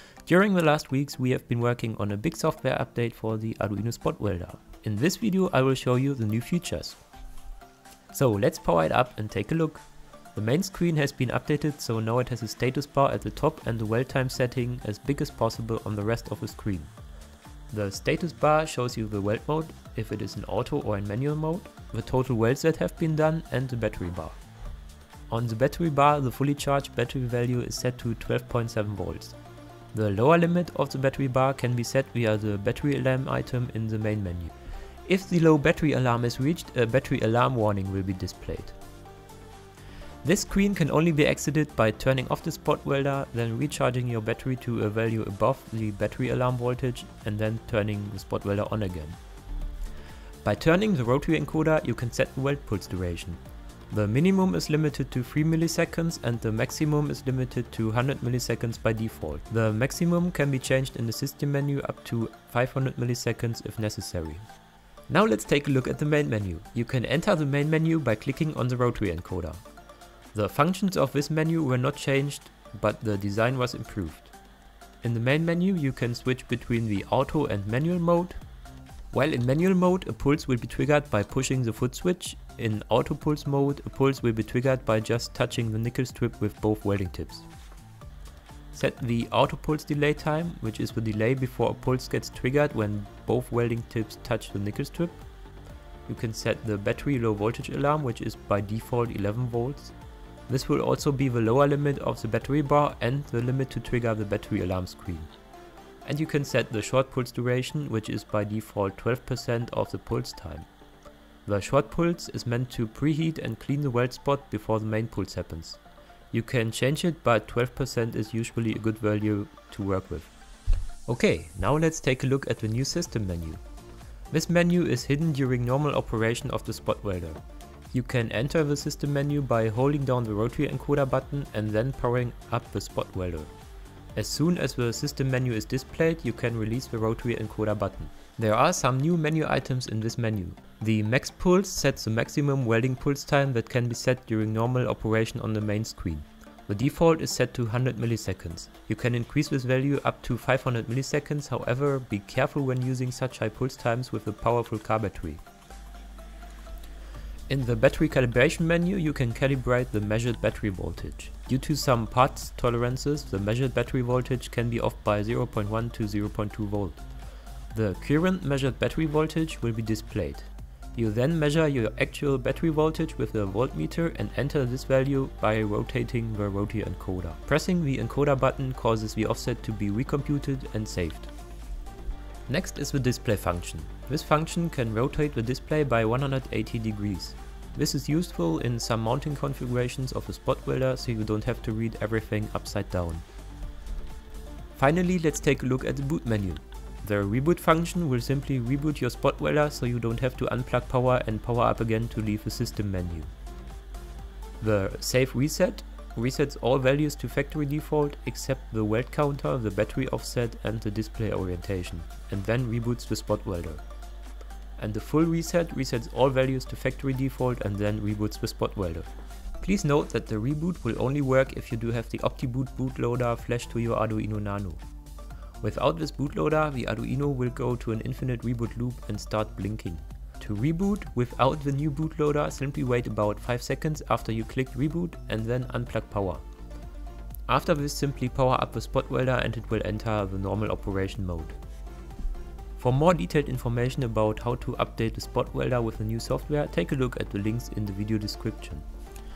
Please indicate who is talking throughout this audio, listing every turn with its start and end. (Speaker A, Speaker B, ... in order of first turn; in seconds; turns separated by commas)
Speaker A: 0.3-7.0, Speaker A: 8.1-9.8, Speaker A: 10.3-16.9, Speaker A: 17.7-24.4, Speaker A: 25.3-29.4, Speaker A: 29.9-34.5, Speaker A: 35.0-38.8, Speaker A: 40.2-49.2, Speaker A: 50.4-53.4, Speaker A: 53.9-64.4, Speaker A: 65.1-69.6, Speaker A: 70.3-74.3, Speaker A: 75.0-78.4, Speaker A: 79.1-87.5, Speaker A: 88.7-95.2, Speaker A: 96.1-99.9, Speaker A: 100.5-105.3, Speaker A: 106.0-110.7, Speaker A: 111.5-115.8, Speaker A: 116.3-120.3, Speaker A: 121.1-123.6, Speaker A: 124.3-127.4, Speaker A: 127.9-133.5, Speaker A: 134.2-155.4, Speaker A: 157.5-167.0, Speaker A: 167.7-181.3, Speaker A: 182.5-193.2, Speaker A: 194.8-203.3, Speaker A: 204.6-213.8, Speaker A: 214.8-224.8, Speaker A: 225.6-236.4, Speaker A: 237.5-241.6, Speaker A: 242.8-248.8